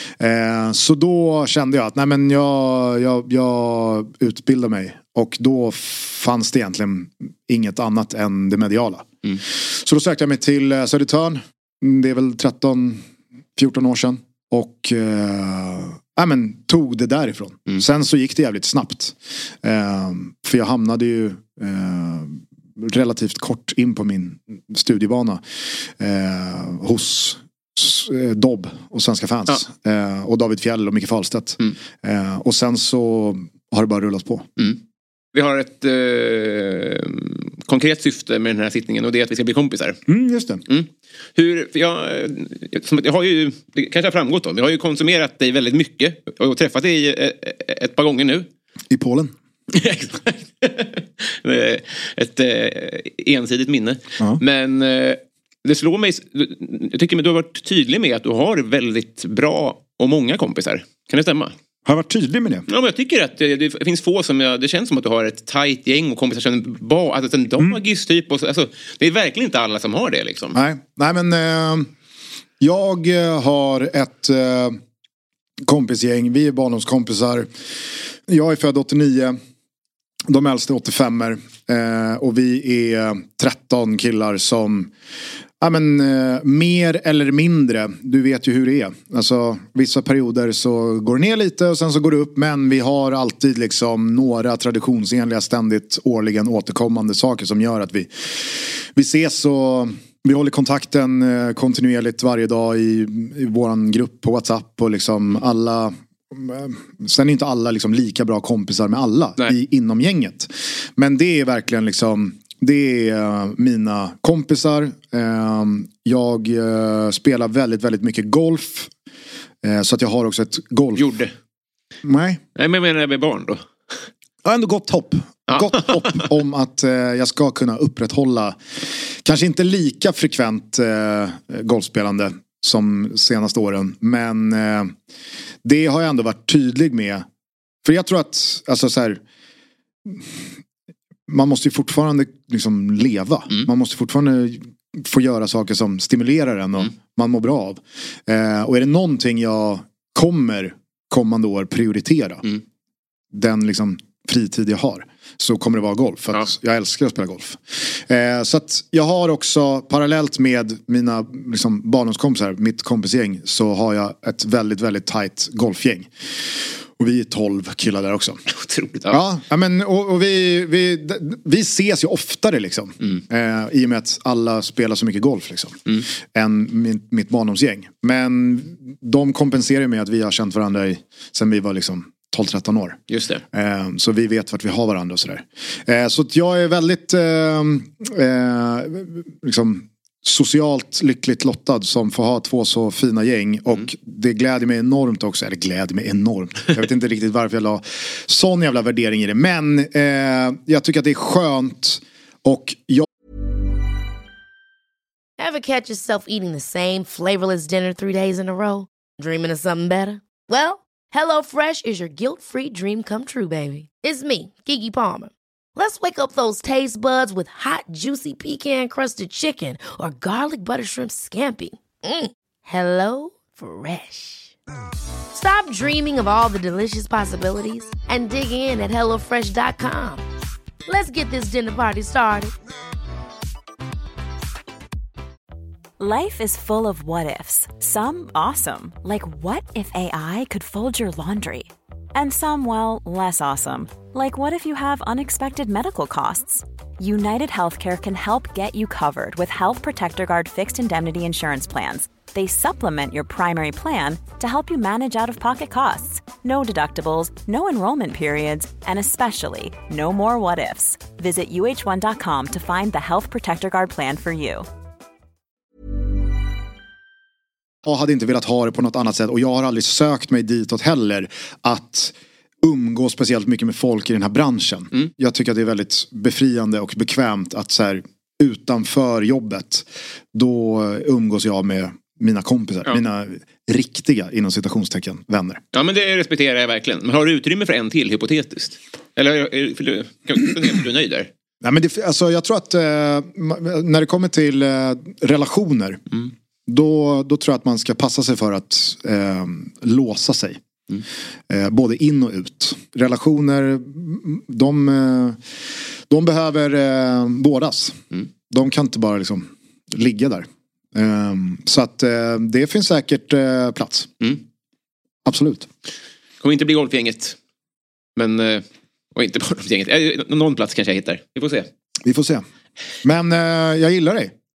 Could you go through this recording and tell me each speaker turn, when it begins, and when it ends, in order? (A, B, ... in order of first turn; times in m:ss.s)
0:00.2-0:13.0 A
0:13.6-0:34.5 A
0:35.3-0:40.0 B
0:40.1-0:40.6 A
0:40.7-0:48.5 B
0:48.9-0:49.3 A
0:49.7-1:01.6 B
1:01.8-1:02.6 A
1:02.7-1:10.6 B
1:10.6-1:11.9 A
1:12.6-1:14.8 A
1:15.6-1:17.5 A
1:18.3-1:19.4 A
1:20.3-1:24.9 A
1:25.6-1:58.9 A
1:59.6-2:01.1 A
2:01.0-2:01.3 B
2:02.0-2:02.4 A
2:02.6-2:03.7 B
2:04.4-2:08.6 A
2:05.5-2:06.2 B
2:09.2-2:14.9 A
2:15.6-2:17.3 A
2:17.8-2:19.2 A
2:20.0-2:20.4 A
2:21.3-2:32.4 A
2:33.3-2:46.1 A
2:47.0-2:48.4 A
2:48.5-2:49.2 B
2:49.1-3:03.0 A
3:03.1-3:03.4 B
3:03.5-3:23.1 A
3:25.4-3:44.5 C
3:45.3-3:50.2 C
3:50.9-3:52.5 C
3:56.0-4:24.7 D
4:27.8-4:45.6 A
4:45.7-4:51.3 B
4:51.6-5:00.6 A
5:01.5-5:05.4 A
5:06.1-5:14.1 A
5:15.2-5:15.7 A
5:16.4-5:17.4 B
5:18.2-5:18.6 B
5:19.2-5:21.7 B
5:22.0-5:22.4 A
5:23.0-5:24.3 A